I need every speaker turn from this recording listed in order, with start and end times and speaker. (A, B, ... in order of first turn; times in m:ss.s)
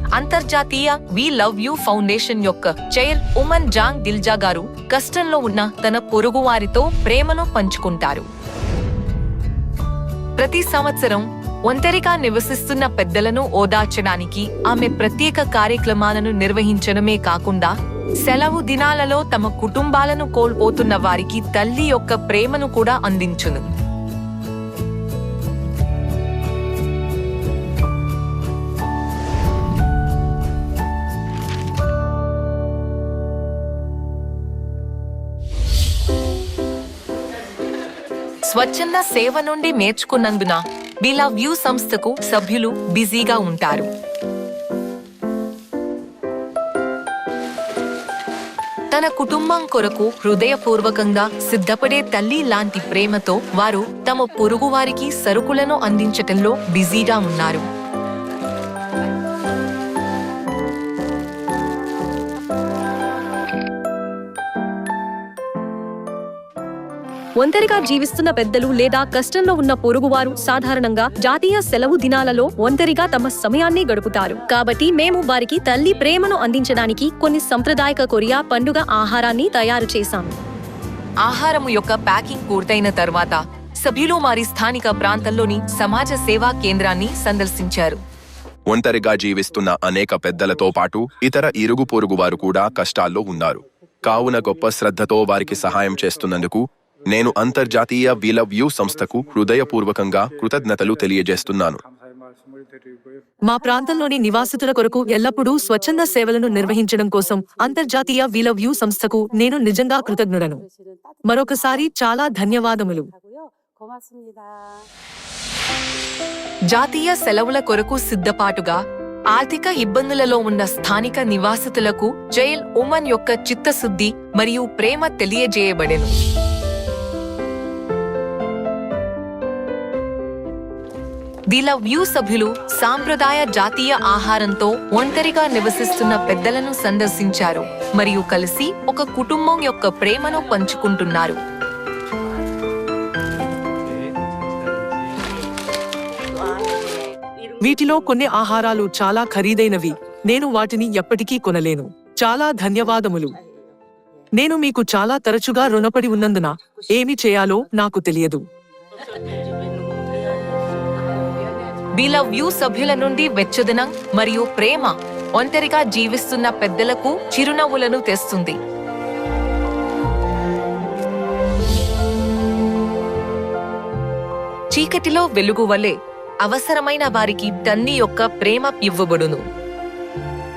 0:00.1-0:08.3 A
0:10.4-0:17.7 A
0:18.2-0:23.6 A
0:38.4-0:43.9 A
0:48.9-0:57.6 A
1:07.4-1:20.3 B
1:21.2-1:28.0 A
1:28.7-1:41.8 C
1:43.5-1:50.6 D
1:51.3-1:53.1 D
1:56.7-1:58.8 A
1:59.3-2:06.1 A
2:11.5-2:21.4 A
2:27.6-2:33.4 D
2:34.4-2:38.4 D
2:41.9-2:48.6 A
2:54.7-2:59.4 A